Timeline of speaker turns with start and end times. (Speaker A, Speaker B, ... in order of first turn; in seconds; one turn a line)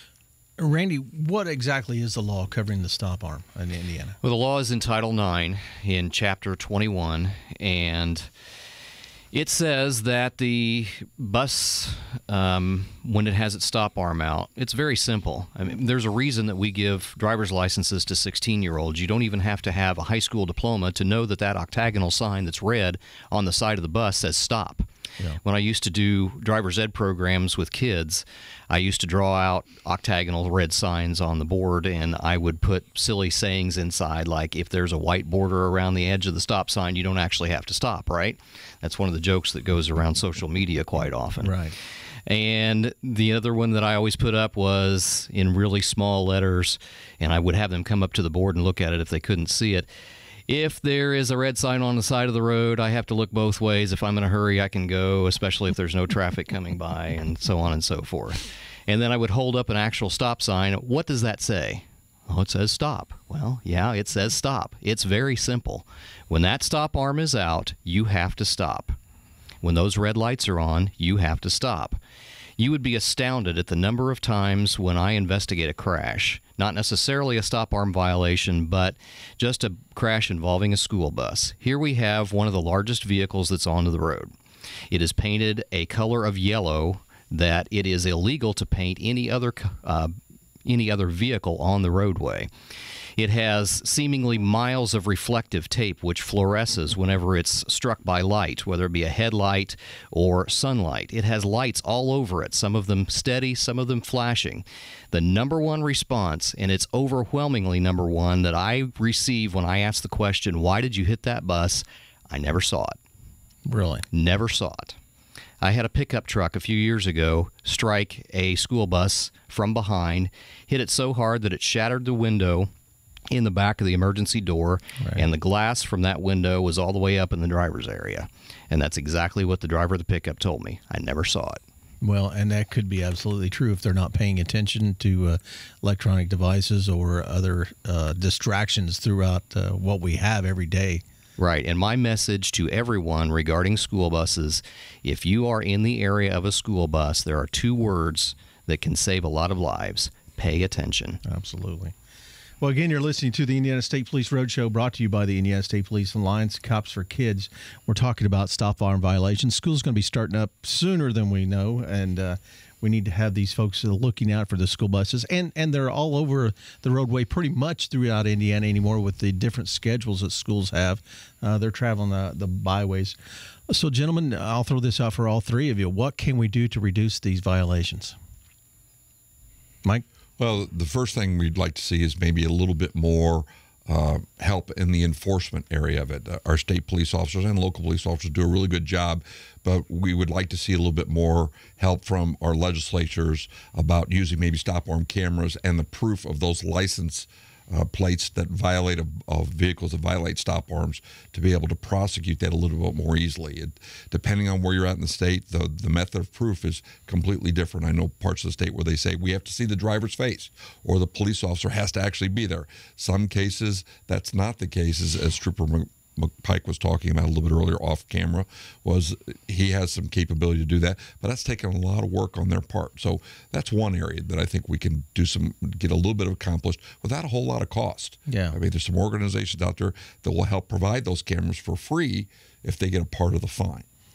Speaker A: 0.6-4.2
Speaker B: 4.2-8.3
Speaker B: 9.3-24.9
Speaker B: 25.4-41.6
Speaker A: 41.4-41.8
Speaker B: 42.3-49.9
Speaker B: 50.5-69.0
Speaker B: 69.6-72.0
Speaker B: 72.6-84.3
Speaker B: 84.9-90.1
Speaker B: 90.7-92.5
Speaker B: 93.2-113.0
Speaker A: 113.7-114.0
Speaker B: 114.1-115.0
Speaker B: 115.6-122.7
Speaker B: 123.3-131.6
Speaker A: 132.0-141.0
Speaker B: 141.4-151.2
Speaker A: 151.2-151.9
Speaker A: 152.6-173.2
Speaker A: 173.7-178.2
Speaker C: 180.4-233.8
Speaker A: 228.3-228.6